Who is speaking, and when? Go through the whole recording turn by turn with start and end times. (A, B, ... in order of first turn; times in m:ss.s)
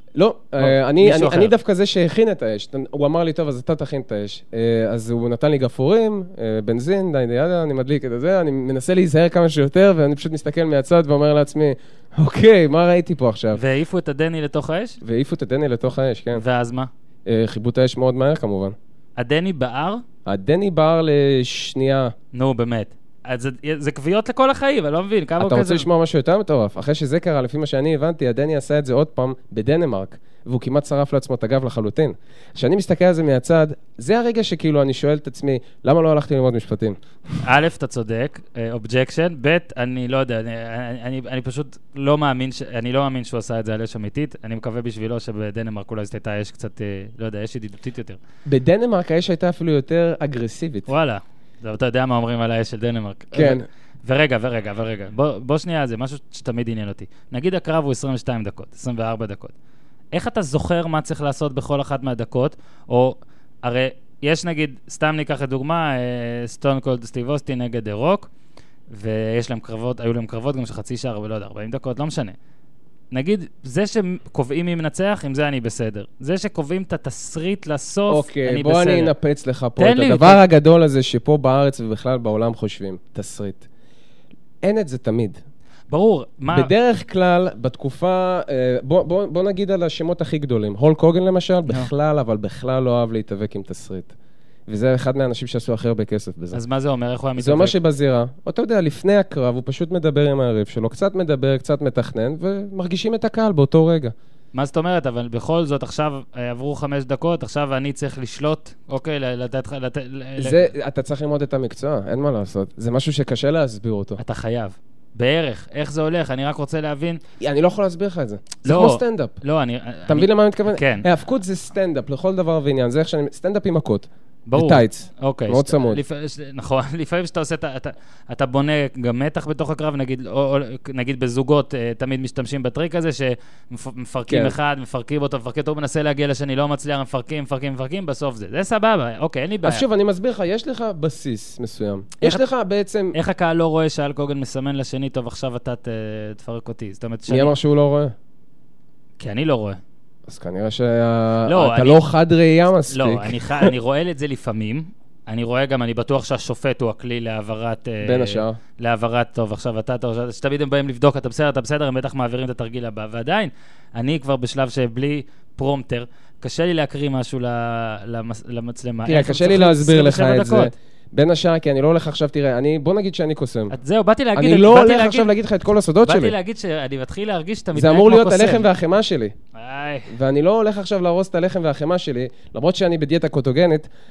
0:00.2-0:13.6 A
0:00.6-0:01.5 B
0:13.6-0:15.0 B
0:15.0-0:16.4 A
0:16.3-0:16.9 B
0:17.3-0:18.8 A
0:19.2-0:20.0 B
0:20.3-0:22.1 A
0:22.3-0:25.9 B
0:25.4-0:37.0 A
0:37.4-0:48.2 B
0:48.5-0:50.9 A
0:50.9-0:59.5 B
0:53.3-0:53.6 A
1:00.1-1:08.3 B
1:08.9-1:12.4 B
1:13.1-1:19.1 B
1:18.1-1:23.7 A
1:19.8-1:20.4 B
1:24.6-1:25.4 A
1:25.9-1:26.7 B
1:26.5-1:34.1 A
1:34.7-1:36.6 A
1:36.5-1:37.8 B
1:37.4-1:44.1 A
1:44.5-1:50.7 B
1:50.4-1:54.2 A
1:54.2-1:57.2 B
1:57.4-1:59.4 A
1:58.6-2:01.1 B
2:00.1-2:06.0 A
2:04.5-2:19.8 B
2:14.3-2:14.6 A
2:19.6-2:23.2 A
2:23.1-2:27.6 B
2:27.3-2:28.1 A
2:29.2-2:29.8 B
2:30.3-2:33.7 A
2:31.5-2:32.0 B
2:32.9-2:50.7 B
2:38.0-2:38.6 A
2:49.1-2:53.8 A
2:53.7-2:55.3 B
2:54.4-2:56.4 A
2:56.0-2:58.7 B
2:57.7-2:59.3 A
2:59.5-3:00.1 B
3:00.1-3:03.9 A